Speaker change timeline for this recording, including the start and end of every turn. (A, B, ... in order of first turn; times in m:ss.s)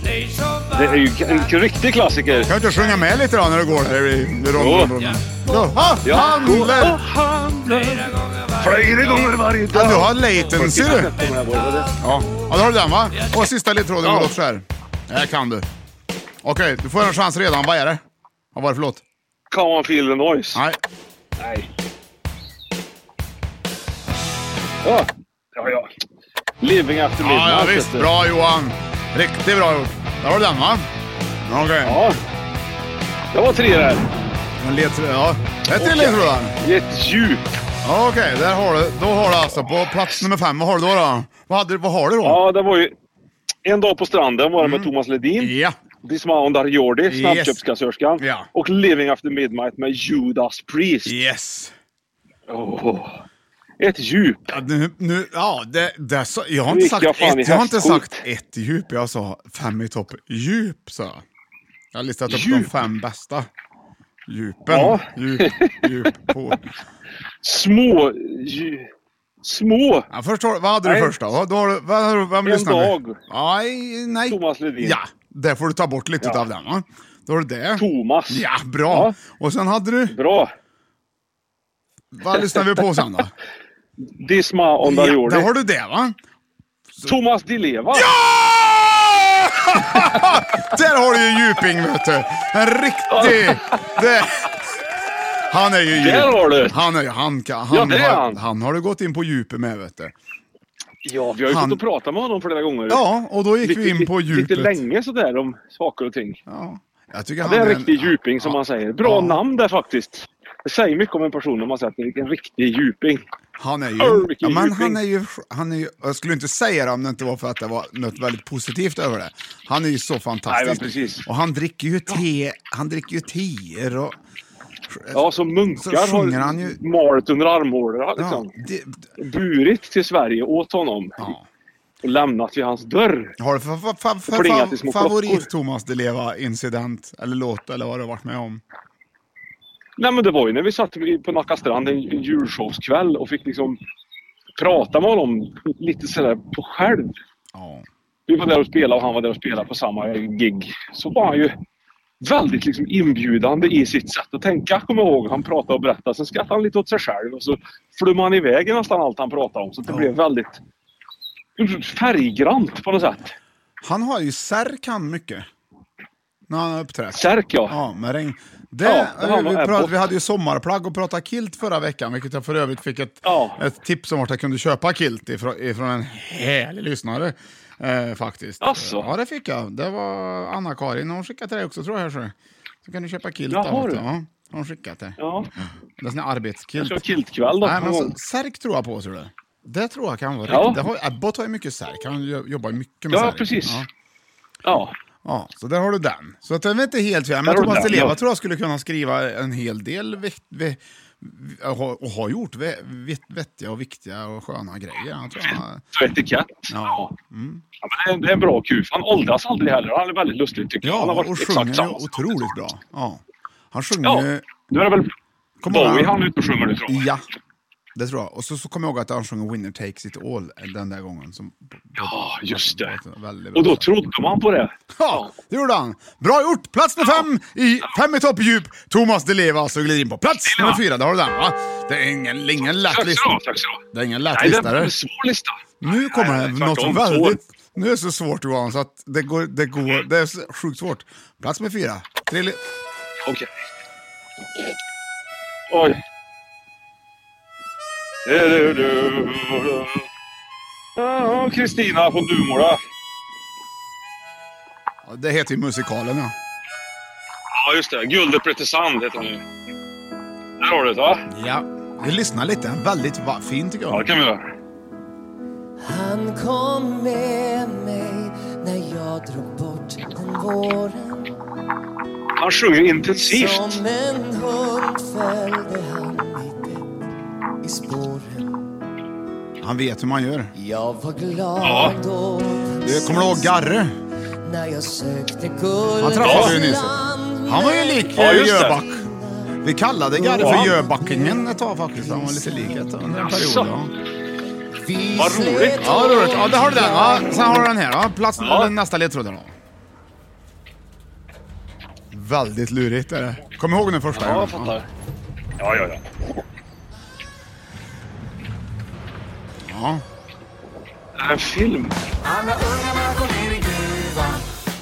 0:00.7-0:02.5 A
0:02.5-0:07.0 B
0:04.6-0:05.0 A
0:05.5-0:11.9 A
0:09.7-0:11.1 B
0:12.0-0:15.7 B
0:14.0-0:14.3 A
0:16.4-0:18.0 B
0:18.5-0:19.0 B
0:19.5-0:20.6 A
0:20.5-0:20.8 B
0:21.4-0:21.7 A
0:24.8-0:25.9 A
0:26.6-0:28.1 A
0:27.2-0:30.8 B
0:31.4-0:32.0 B
0:31.8-0:32.2 A
0:33.3-0:34.1 A
0:34.6-0:36.6 B
0:35.7-0:37.4 A
0:37.8-0:42.4 B
0:42.2-0:42.9 A
0:43.6-0:45.5 A
0:44.6-0:45.8 B
0:46.0-0:51.2 A
0:47.1-0:47.6 B
0:48.2-0:48.5 B
0:51.0-0:51.7 B
0:52.5-0:53.2 A
0:53.8-0:54.4 A
0:54.5-1:01.2 B
0:56.7-0:58.2 A
1:01.9-1:03.5 B
1:02.3-1:02.7 A
1:04.3-1:06.6 B
1:04.7-1:05.9 A
1:07.4-1:08.9 A
1:09.4-1:10.1 A
1:10.1-1:20.2 B
1:10.8-1:11.1 A
1:12.4-1:13.2 A
1:14.3-1:15.0 A
1:17.8-1:19.1 A
1:20.1-1:20.5 A
1:22.1-1:23.3 B
1:24.1-1:25.5 A
1:24.8-1:26.2 B
1:27.0-1:28.1 A
1:27.9-1:34.6 B
1:33.1-1:33.8 A
1:35.5-1:40.1 B
1:35.9-1:36.8 A
1:37.7-1:38.4 A
1:41.0-1:43.0 A
1:41.5-1:41.8 B
1:42.9-1:44.8 B
1:43.6-1:46.4 A
1:46.5-1:49.4 B
1:47.4-1:53.2 A
1:53.6-2:04.2 B
1:54.0-1:55.0 A
2:00.5-2:01.2 A
2:04.9-2:05.2 B
2:05.1-2:08.5 A
2:05.7-2:06.8 B
2:08.2-2:09.1 B
2:09.2-2:11.3 A
2:11.2-2:11.5 B
2:12.0-2:13.3 A
2:13.4-2:18.6 B
2:14.3-2:15.4 A
2:20.0-2:23.8 A
2:24.6-2:27.2 A
2:27.5-2:27.9 B
2:28.3-2:31.5 A
2:32.2-2:40.6 A
2:39.8-2:40.1 B
2:41.6-2:43.3 A
2:43.8-2:45.5 B
2:46.5-3:05.2 B
2:47.1-2:47.8 A
2:48.8-2:50.0 A
2:53.2-2:53.6 A
2:58.6-2:59.1 A
3:03.5-3:04.0 A
3:05.2-3:05.5 A
3:06.0-3:07.0 B
3:06.8-3:08.1 A
3:07.6-3:13.9 B
3:10.5-3:10.8 A
3:13.1-3:13.8 A
3:14.6-3:14.9 A
3:15.2-3:25.8 B
3:17.4-3:18.2 A
3:25.4-3:27.1 A
3:26.7-3:27.6 B
3:27.8-3:32.4 A
3:30.8-3:34.5 B
3:34.0-3:35.1 A
3:35.6-3:36.1 B
3:35.7-3:37.1 A
3:36.9-3:37.2 B
3:37.9-3:43.9 B
3:42.0-3:42.9 A
3:43.5-3:45.3 A
3:44.9-3:53.4 B
3:50.5-3:50.8 A
3:52.9-3:53.8 A
3:53.9-3:54.9 B
3:54.3-3:57.4 A
3:55.8-4:02.6 B
4:05.7-4:06.0 A
4:08.2-4:10.0 A
4:11.0-4:12.8 A
4:15.0-4:16.3 B
4:17.5-4:19.4 A
4:20.6-4:21.2 A
4:21.3-4:24.1 B
4:23.9-4:24.4 A
4:25.8-4:31.3 C
4:32.4-4:33.8 A
4:33.2-4:37.0 C
4:37.6-4:38.6 C
4:39.6-4:40.5 B
4:40.6-4:43.5 C
4:41.6-4:42.0 A
4:42.8-4:44.0 B
4:44.4-4:48.1 C
4:46.0-4:49.0 B
4:46.2-4:46.6 A
4:48.1-4:48.8 A
4:49.0-4:49.5 C
4:49.6-4:53.9 B
4:50.1-4:51.4 C
4:50.4-4:50.8 A
4:52.0-4:52.7 C
4:53.1-4:53.7 A
4:54.8-4:57.4 C
4:55.1-4:56.2 A
4:55.8-4:59.5 B
4:58.4-4:58.7 A
5:02.1-5:04.8 B
5:04.1-5:04.8 A
5:05.6-5:06.0 A
5:09.6-5:10.0 B
5:11.2-5:12.0 A
5:12.2-5:14.4 B